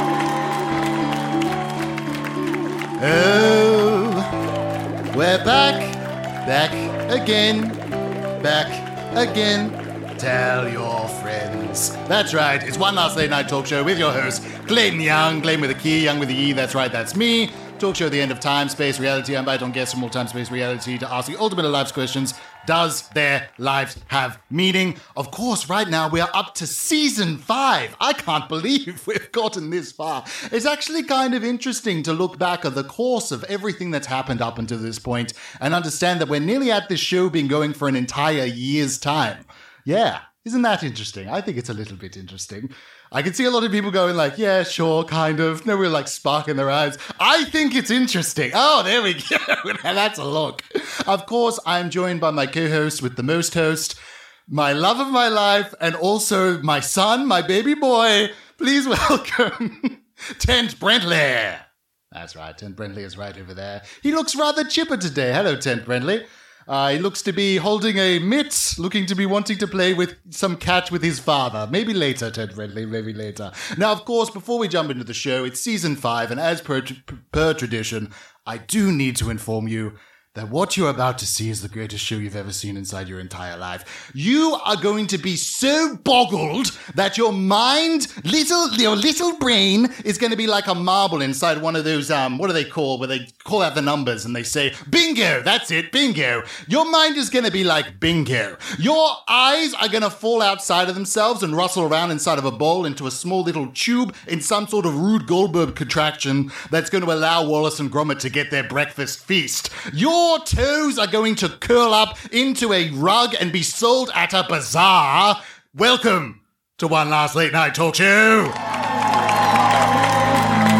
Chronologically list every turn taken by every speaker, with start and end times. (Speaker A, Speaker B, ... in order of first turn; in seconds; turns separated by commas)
Speaker A: 3.0-4.3, Speaker A: 5.1-7.8, Speaker A: 8.4-54.0, Speaker A: 54.5-118.6